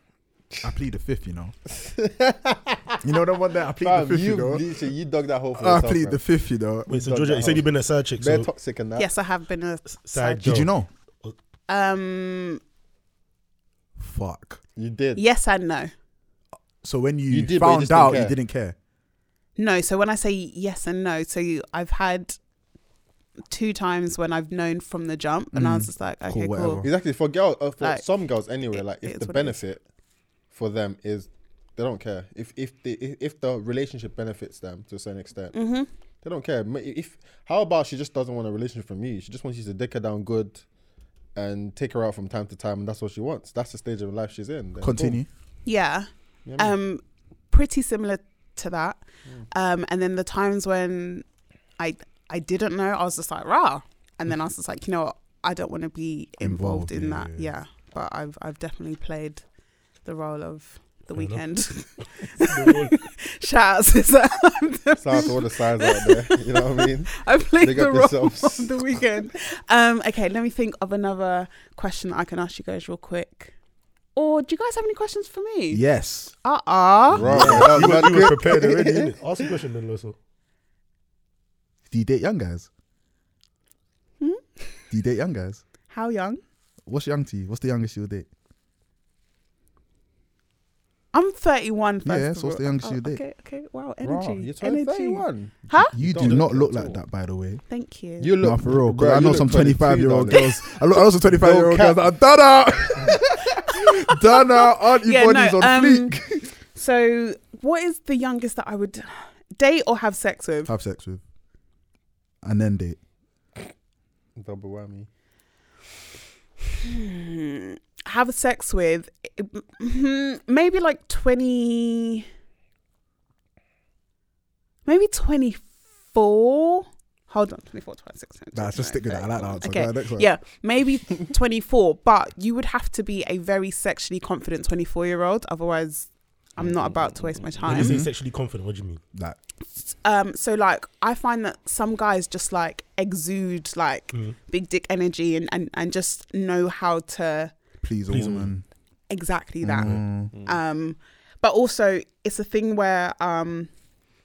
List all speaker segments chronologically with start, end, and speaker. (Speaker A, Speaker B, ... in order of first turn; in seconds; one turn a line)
Speaker A: 0.6-1.6
Speaker B: 1.7-3.0
Speaker A: 3.0-4.7
Speaker B: 3.8-6.2
Speaker A: 5.6-7.3
Speaker C: 6.9-8.5
Speaker B: 6.9-7.7
Speaker B: 8.2-9.1
Speaker D: 9.0-10.6
Speaker C: 9.9-11.3
Speaker A: 10.4-10.9
Speaker D: 11.7-12.6
Speaker A: 14.0-14.6
Speaker B: 14.8-15.2
Speaker D: 15.2-15.9
Speaker A: 16.8-18.8
Speaker B: 17.3-18.4
Speaker D: 19.6-22.4
Speaker D: 23.5-26.9
Speaker A: 25.5-26.9
Speaker B: 26.8-29.8
Speaker D: 28.7-29.6
Speaker B: 30.5-35.5
Speaker D: 35.5-35.9
Speaker B: 36.2-40.6
Speaker B: 41.4-45.2
Speaker A: 44.8-45.3
Speaker D: 45.6-51.2
Speaker B: 46.5-46.8
Speaker D: 51.8-59.4
Speaker A: 56.4-57.5
Speaker D: 60.0-73.5
Speaker C: 61.2-61.5
Speaker C: 62.0-63.0
Speaker B: 65.0-69.0
Speaker D: 74.2-75.8
Speaker A: 75.7-76.3
Speaker D: 76.4-77.6
Speaker A: 77.1-78.2
Speaker B: 77.1-79.4
Speaker C: 77.3-80.2
Speaker A: 81.9-82.7
Speaker D: 84.2-84.8
Speaker A: 84.9-85.6
Speaker D: 85.9-86.4
Speaker A: 86.9-88.3
Speaker D: 91.1-96.0
Speaker A: 92.0-93.2
Speaker B: 94.0-97.0
Speaker A: 95.9-97.6
Speaker D: 97.7-98.3
Speaker B: 98.2-100.4
Speaker A: 98.4-106.5
Speaker B: 101.3-102.0
Speaker D: 103.8-106.2
Speaker D: 106.7-110.7
Speaker A: 110.7-111.2
Speaker A: 112.4-113.0
Speaker B: 114.4-115.1
Speaker D: 116.8-122.3
Speaker D: 124.9-138.0
Speaker A: 128.5-130.3
Speaker B: 136.6-137.6
Speaker C: 137.6-139.0
Speaker A: 137.7-138.1
Speaker D: 139.7-147.5
Speaker A: 147.8-148.6
Speaker C: 148.1-148.5
Speaker D: 149.1-153.7
Speaker A: 149.6-150.3
Speaker B: 150.3-150.6